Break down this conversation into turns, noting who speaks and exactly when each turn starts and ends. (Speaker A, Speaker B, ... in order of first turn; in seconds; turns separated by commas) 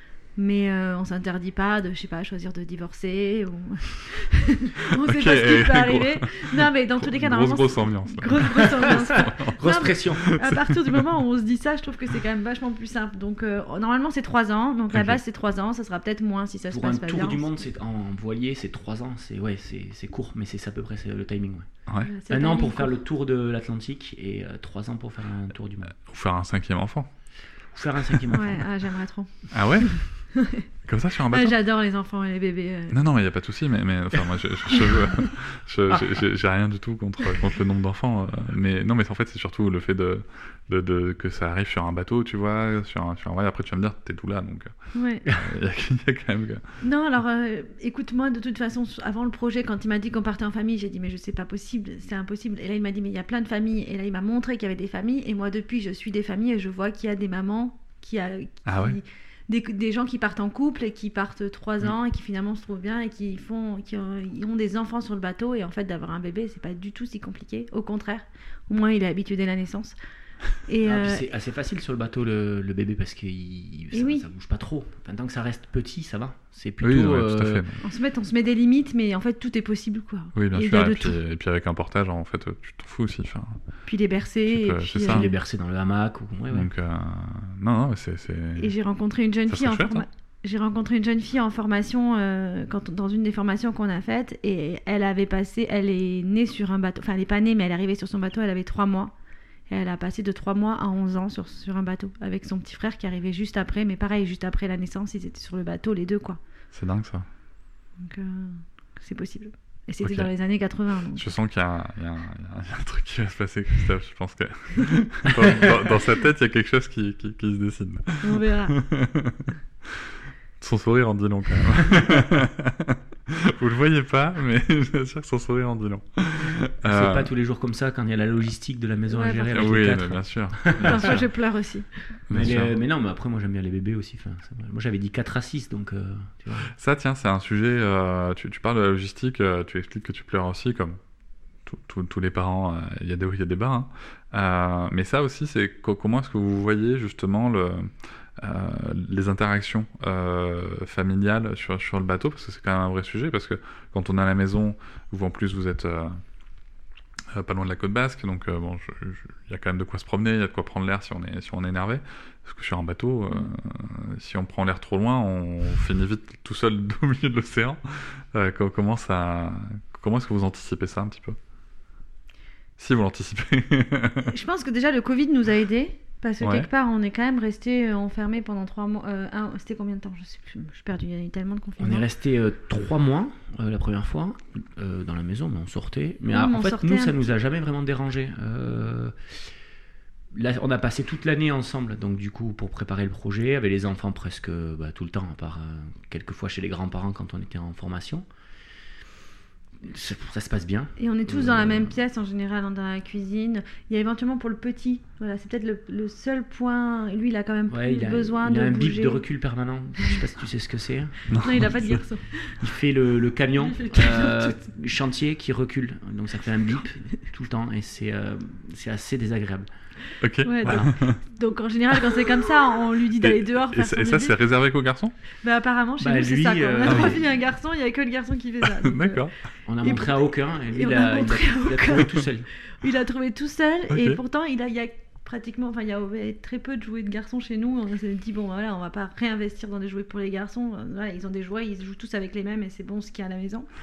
Speaker A: 0.3-17.6, Speaker B: 5.0-11.0, Speaker C: 8.8-10.3, Speaker B: 14.9-15.2, Speaker C: 16.7-21.7, Speaker A: 22.0-23.0, Speaker C: 22.3-25.9, Speaker B: 26.0-27.1, Speaker C: 27.7-28.6, Speaker A: 28.3-30.6, Speaker B: 29.5-31.6, Speaker A: 31.3-33.0, Speaker B: 32.9-46.8, Speaker A: 44.9-45.2, Speaker A: 46.8-69.9, Speaker B: 58.6-59.0, Speaker A: 70.6-71.2, Speaker C: 70.8-77.6, Speaker A: 73.9-74.2, Speaker B: 76.8-77.8, Speaker A: 77.8-81.2, Speaker B: 80.3-83.6, Speaker A: 83.8-85.2, Speaker B: 84.5-85.3, Speaker C: 85.0-86.7, Speaker B: 86.5-88.7, Speaker A: 88.6-99.1, Speaker B: 89.5-90.0, Speaker A: 99.7-106.4, Speaker B: 106.7-107.3, Speaker A: 108.0-111.2, Speaker B: 110.0-110.3, Speaker B: 111.1-120.1, Speaker A: 118.2-118.7, Speaker B: 120.6-127.3, Speaker C: 126.8-131.2, Speaker A: 129.1-129.5, Speaker B: 129.5-131.2, Speaker A: 130.8-132.2, Speaker B: 132.3-132.7, Speaker C: 132.3-136.7, Speaker B: 136.7-141.0, Speaker B: 141.7-156.2, Speaker B: 157.3-171.4, Speaker B: 172.8-174.3, Speaker A: 174.3-182.0, Speaker B: 176.4-176.7, Speaker C: 181.8-189.5, Speaker A: 186.3-187.3, Speaker C: 190.3-198.2, Speaker C: 199.8-201.9, Speaker A: 201.0-209.2, Speaker C: 207.7-211.7, Speaker B: 211.3-212.0, Speaker A: 211.4-212.6, Speaker C: 212.6-219.7, Speaker A: 213.6-214.7, Speaker B: 220.2-221.2, Speaker A: 220.4-224.3, Speaker C: 220.6-220.9, Speaker B: 223.2-225.1, Speaker A: 225.4-229.3, Speaker C: 226.0-227.2, Speaker B: 226.8-227.1, Speaker B: 228.6-229.4, Speaker C: 229.6-232.5, Speaker A: 229.8-243.7, Speaker B: 233.9-234.2